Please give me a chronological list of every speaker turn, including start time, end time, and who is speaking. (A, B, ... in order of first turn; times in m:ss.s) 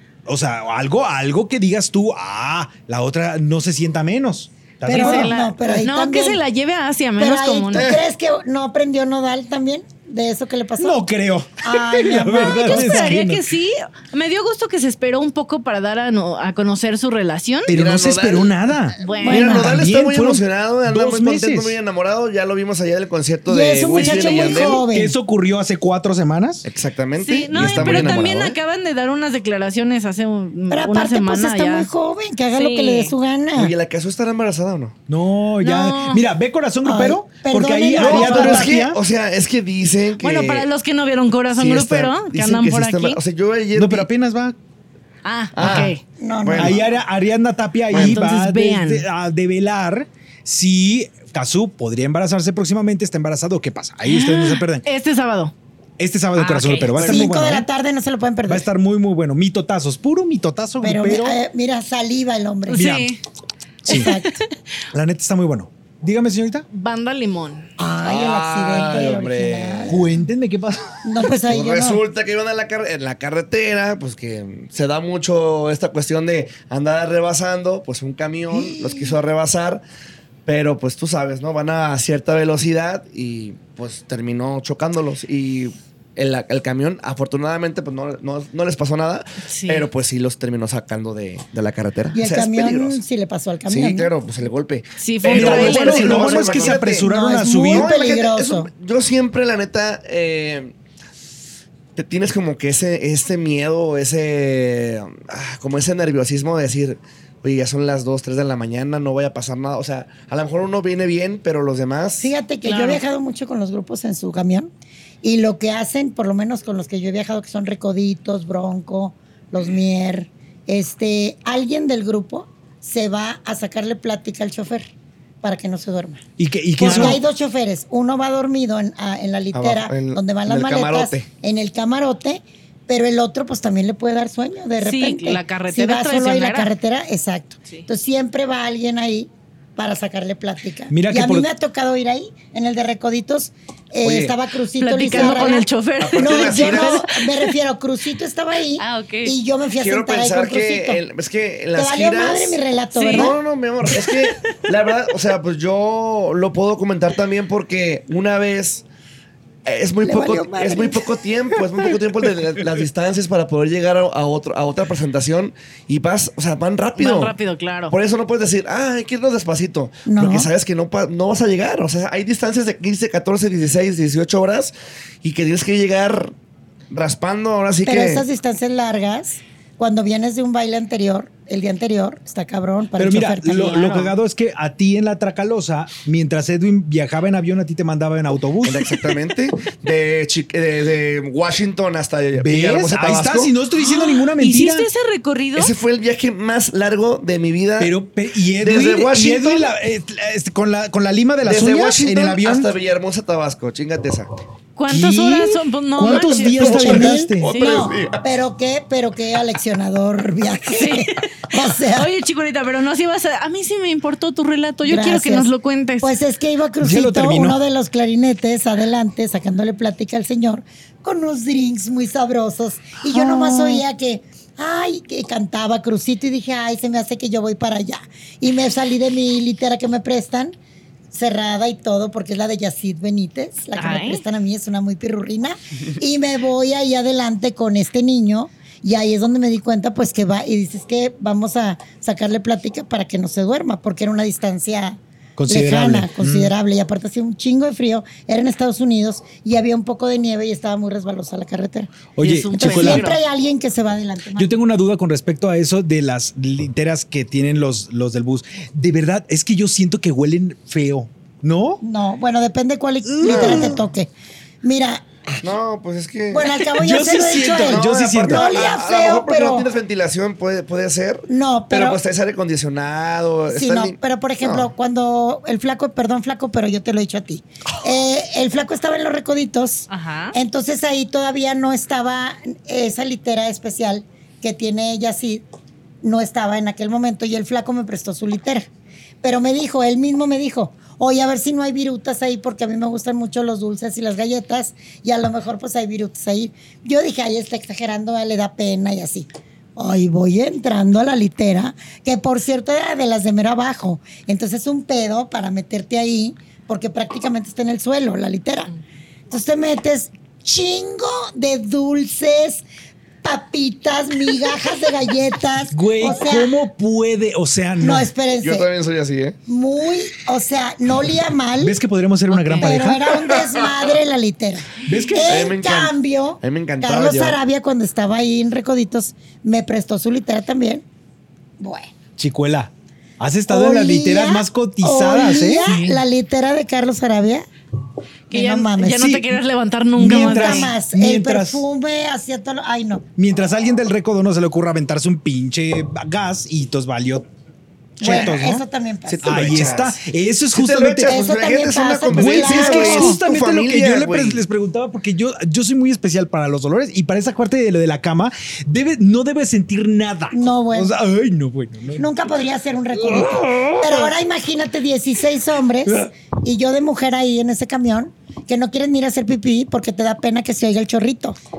0:00.3-0:05.3 A
0:04.9-0:06.4 B
0:04.9-0:07.9 C
0:07.2-0:11.1 B
0:07.7-0:08.0 D
0:10.8-0:13.4 A
0:11.6-0:13.1 B
0:12.3-0:17.7 C
0:17.7-0:21.8 A
0:17.7-0:18.6 D
0:19.0-0:19.6 C
0:19.1-0:19.8 B
0:19.2-0:24.8 D
0:23.5-0:25.1 B
0:23.9-0:24.8 C
0:24.9-0:26.7 A
0:26.6-0:28.6 D
0:27.2-0:31.9 C
0:27.5-0:28.3 A
0:30.7-0:33.7 B
0:32.5-0:33.1 C
0:33.6-0:35.0 D
0:35.1-0:39.0 A
0:35.6-0:36.2 C
0:36.8-0:38.8 B
0:38.0-0:40.7 D
0:40.2-0:43.2 C
0:41.5-0:44.1 D
0:43.8-0:44.6 A
0:45.2-0:46.0 C
0:45.6-0:46.8 D
0:45.6-0:45.9 A
0:46.2-0:46.8 B
0:46.6-0:54.8 A
0:47.9-0:48.2 D
0:47.9-0:49.0 C
0:54.0-0:55.5 C
0:56.0-0:57.7 A
0:56.4-0:57.3 C
0:57.0-0:58.7 B
0:58.5-1:01.4 A
1:00.8-1:02.9 B
1:02.7-1:03.2 C
1:02.8-1:03.2 A
1:03.8-1:04.1 A
1:03.9-1:04.4 B
1:03.9-1:04.5 C
1:04.9-1:06.7 A
1:06.7-1:07.7 C
1:07.8-1:10.1 B
1:08.0-1:10.0 D
1:09.9-1:11.0 A
1:11.0-1:12.0 B
1:11.5-1:19.8 D
1:18.5-1:19.2 B
1:20.5-1:33.0 D
1:29.5-1:29.9 C
1:32.2-1:34.1 B
1:33.7-1:37.1 D
1:35.0-1:36.6 C
1:35.3-1:37.9 A
1:36.5-1:38.7 B
1:37.7-1:40.8 D
1:42.0-1:52.3 D
1:52.2-1:54.7 B
1:52.6-1:53.0 C
1:55.2-2:04.9 B
2:05.4-2:06.2 B
2:06.4-2:07.2 A
2:06.8-2:31.0 B
2:09.5-2:11.3 D
2:14.8-2:16.7 C
2:20.9-2:21.5 A
2:24.0-2:24.4 D
2:24.8-2:27.5 C
2:25.1-2:27.0 D
2:28.8-2:29.3 C
2:29.8-2:32.6 D
2:31.8-2:33.4 B
2:33.0-2:33.4 C
2:33.1-2:38.8 D
2:33.9-2:34.2 C
2:39.6-2:47.3 D
2:40.0-2:41.1 B
2:47.0-2:47.9 C
2:47.9-2:56.3 D
2:50.1-2:50.5 B
2:56.9-2:58.2 D
2:57.8-3:04.1 B
3:03.0-3:09.1 A
3:08.6-3:13.5 D
3:12.4-3:14.9 A
3:13.8-3:15.7 C
3:15.6-3:18.0 D
3:17.8-3:22.7 A
3:18.6-3:19.7 D
3:21.4-3:24.3 D
3:24.8-3:27.9 C
3:24.9-3:27.5 A
3:26.5-3:32.1 B
3:27.4-3:28.2 D
3:30.7-3:36.1 C
3:34.9-3:35.5 B
3:36.0-3:50.6 B
3:36.8-3:37.6 A
3:43.1-3:43.8 C
3:51.1-4:11.9 B
3:53.8-3:54.2 C
4:05.4-4:06.5 A
4:12.2-4:13.2 A
4:12.2-4:13.2 C
4:12.6-4:14.5 B
4:14.4-4:21.8 A
4:21.8-4:24.1 B
4:23.0-4:23.8 A
4:23.2-4:23.7 D
4:24.6-4:25.5 B
4:25.4-4:26.6 D
4:26.3-4:29.7 B
4:26.8-4:28.6 A
4:27.3-4:34.7 D
4:31.3-4:32.0 B
4:33.5-4:45.4 B
4:39.9-4:40.4 C
4:46.0-4:48.7 B
4:49.2-5:08.7 B
5:09.3-5:12.6 B
5:13.2-5:16.6 B
5:15.7-5:18.1 A
5:17.8-5:18.7 B
5:18.4-5:19.4 D
5:19.5-5:21.8 B
5:21.6-5:23.1 A
5:22.3-5:22.8 C
5:22.6-5:30.8 B
5:23.1-5:23.5 D
5:24.8-5:25.4 A
5:25.2-5:27.4 D
5:31.6-5:31.9 B
5:32.2-5:35.7 A
5:33.5-5:37.5 B
5:35.6-5:36.0 C
5:38.3-5:39.1 B
5:38.3-5:40.7 C
5:39.0-5:39.4 A
5:40.0-5:41.6 A
5:40.0-5:43.0 B
5:43.2-5:47.3 A
5:48.0-5:48.6 A
5:48.0-5:49.3 B
5:49.1-5:50.0 D
5:49.2-5:51.2 A
5:50.5-5:54.4 D
5:51.0-5:53.2 B
5:52.1-6:02.1 A
6:00.3-6:00.9 B
6:02.0-6:11.4 B
6:03.0-6:04.1 A